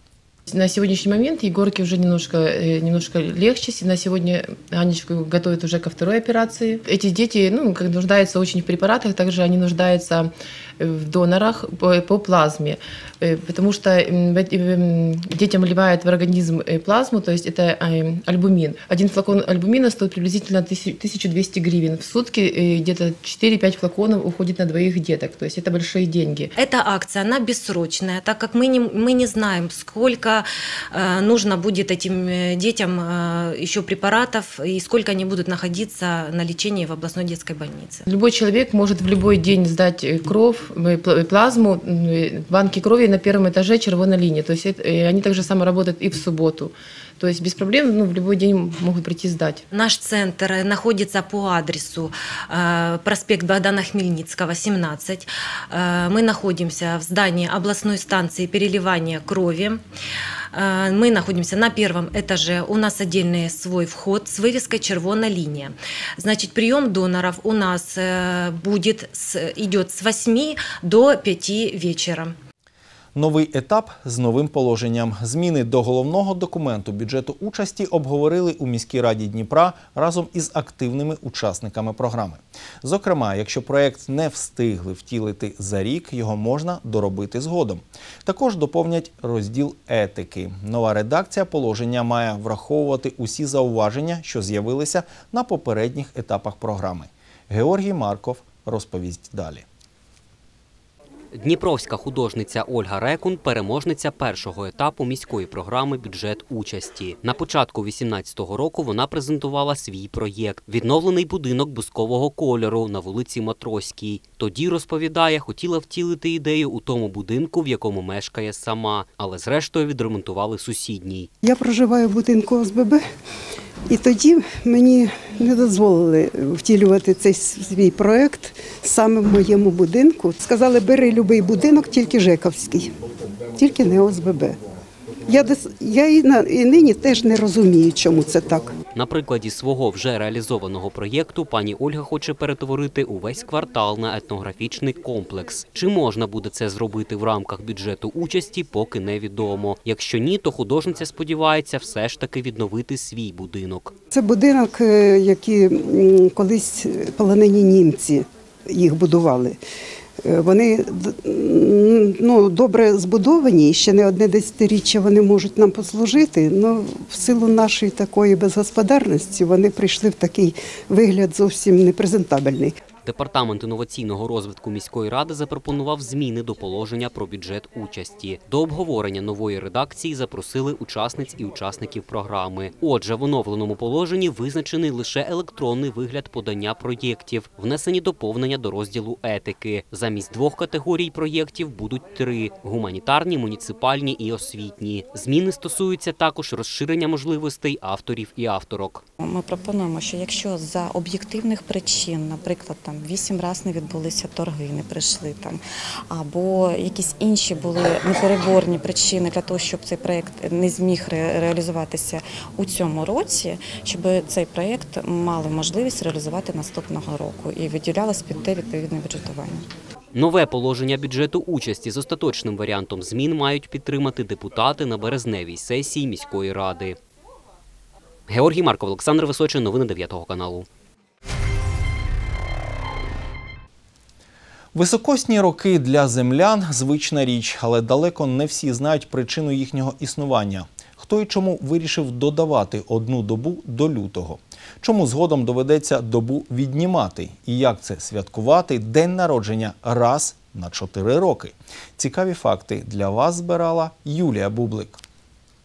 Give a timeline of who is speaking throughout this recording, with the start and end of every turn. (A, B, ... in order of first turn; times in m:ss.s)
0:00.5-0:26.5 A
0:26.6-0:38.1 B
0:38.1-0:49.6 A
0:49.7-0:59.8 B
1:00.5-1:12.4 B
1:13.2-1:39.6 C
1:41.4-2:01.3 D
2:01.4-2:03.0 E
2:03.9-2:12.9 E
2:13.6-2:14.6 E
2:15.3-2:18.7 E
2:19.0-2:33.9 D
2:34.1-2:39.6 E
2:40.2-2:52.8 E
2:53.0-3:19.0 D
3:19.2-3:25.6 F
3:26.1-3:39.6 F
3:40.2-3:47.0 D
3:48.3-3:50.7 D
3:54.7-4:15.0 C